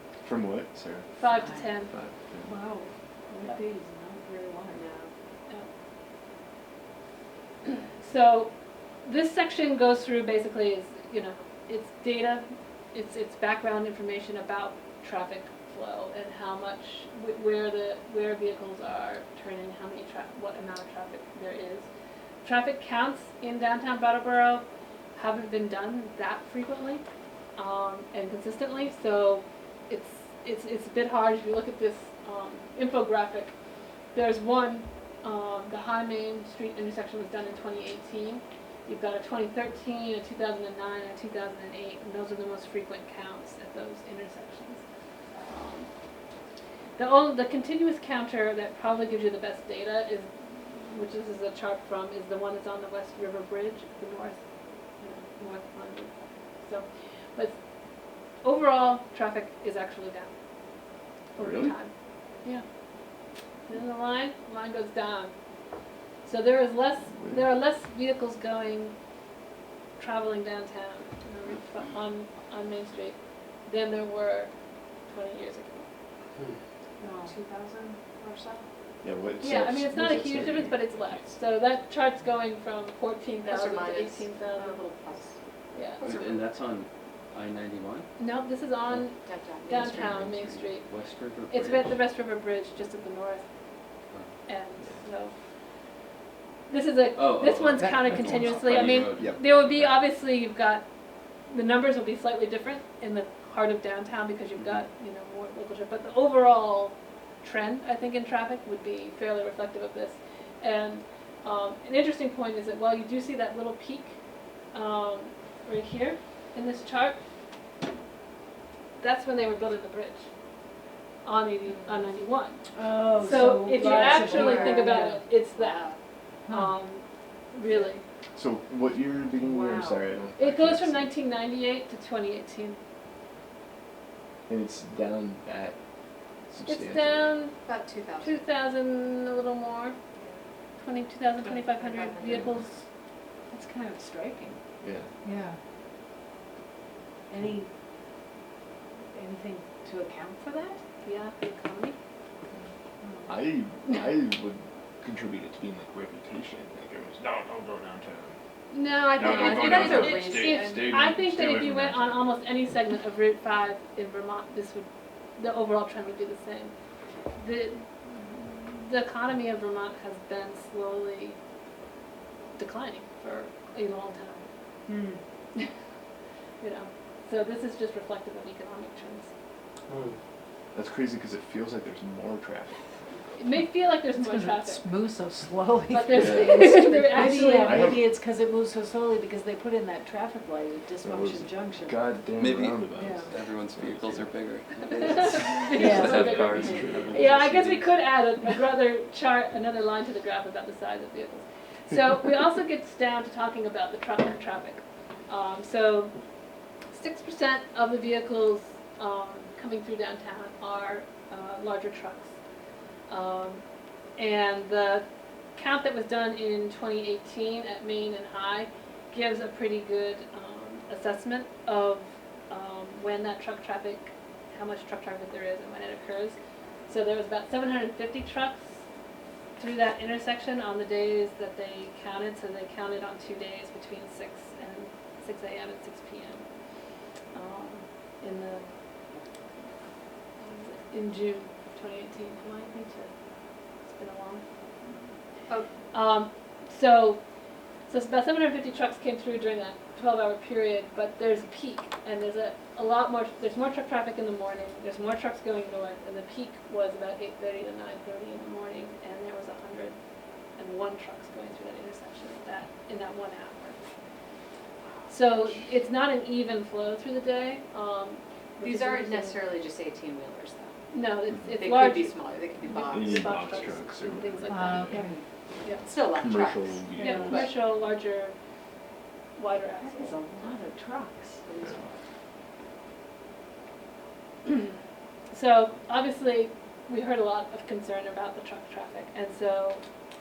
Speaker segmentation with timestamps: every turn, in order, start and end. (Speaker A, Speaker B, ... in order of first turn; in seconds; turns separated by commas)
Speaker A: 0.2-1.1, Speaker B: 1.2-1.9, Speaker C: 1.3-1.6, Speaker A: 1.9-2.5, Speaker C: 2.5-4.8, Speaker D: 4.7-5.1, Speaker B: 7.7-8.5, Speaker B: 9.0-21.9, Speaker B: 22.4-24.6, Speaker B: 25.2-27.0, Speaker B: 27.6-33.5, Speaker B: 34.1-44.8, Speaker B: 45.4-45.9, Speaker B: 47.0-54.4, Speaker B: 55.0-57.6, Speaker B: 58.4-60.3, Speaker B: 61.4-61.9, Speaker A: 61.4-61.8, Speaker B: 63.7-65.3, Speaker B: 66.2-69.0, Speaker A: 67.2-67.5, Speaker B: 70.0-74.5, Speaker B: 75.1-75.9, Speaker C: 77.0-78.0, Speaker D: 77.3-78.6, Speaker A: 79.0-81.2, Speaker B: 79.4-84.8, Speaker D: 83.4-85.3, Speaker B: 85.7-86.0, Speaker E: 86.0-88.1, Speaker D: 86.0-86.5, Speaker B: 88.2-90.9, Speaker D: 89.2-90.2, Speaker E: 89.8-92.0, Speaker B: 91.5-93.5, Speaker B: 94.5-95.3, Speaker B: 96.7-100.8, Speaker E: 97.2-100.0, Speaker B: 101.5-114.2, Speaker B: 114.7-117.2, Speaker B: 119.0-120.2, Speaker B: 121.2-122.6, Speaker C: 122.7-125.3, Speaker B: 123.2-125.9, Speaker D: 123.5-126.0, Speaker C: 126.5-126.7, Speaker B: 126.5-128.0, Speaker A: 128.4-131.1, Speaker C: 129.4-130.1, Speaker B: 130.4-132.8, Speaker A: 134.5-135.8, Speaker A: 136.5-137.3, Speaker B: 136.7-137.6, Speaker D: 137.6-138.4, Speaker B: 138.2-140.0, Speaker B: 140.8-142.7, Speaker D: 141.8-142.7, Speaker C: 143.5-144.6, Speaker A: 144.8-145.1, Speaker C: 145.2-145.6, Speaker C: 147.3-147.7, Speaker C: 149.1-150.8, Speaker B: 151.0-152.0, Speaker C: 153.0-153.3, Speaker A: 153.3-158.4, Speaker B: 158.7-166.7, Speaker D: 159.1-160.9, Speaker A: 159.1-162.2, Speaker B: 167.4-171.4, Speaker B: 172.6-174.4, Speaker C: 174.9-175.2, Speaker B: 176.6-179.3, Speaker A: 180.7-182.8, Speaker B: 183.4-184.8, Speaker C: 184.2-192.0, Speaker B: 185.9-188.0, Speaker A: 186.1-186.6, Speaker A: 187.6-188.1, Speaker A: 191.0-194.3, Speaker E: 192.4-197.9, Speaker C: 192.9-193.3, Speaker B: 195.0-206.1, Speaker C: 195.7-196.8, Speaker A: 196.2-197.3, Speaker B: 206.9-212.3, Speaker B: 213.1-213.6, Speaker B: 214.2-215.1, Speaker B: 215.6-228.7, Speaker B: 229.6-236.5, Speaker B: 237.3-238.7, Speaker B: 240.4-243.1, Speaker B: 243.9-244.4, Speaker B: 245.9-247.2, Speaker B: 247.9-260.0, Speaker B: 260.6-263.8, Speaker B: 265.1-269.5, Speaker D: 268.6-270.8, Speaker B: 270.9-275.0, Speaker D: 271.5-273.7, Speaker A: 272.9-275.0, Speaker C: 274.5-275.2, Speaker D: 275.8-277.5, Speaker A: 276.1-277.5, Speaker B: 277.0-278.3, Speaker C: 277.0-277.4, Speaker B: 279.4-280.2, Speaker C: 279.8-281.4, Speaker D: 281.4-282.0, Speaker B: 285.3-289.8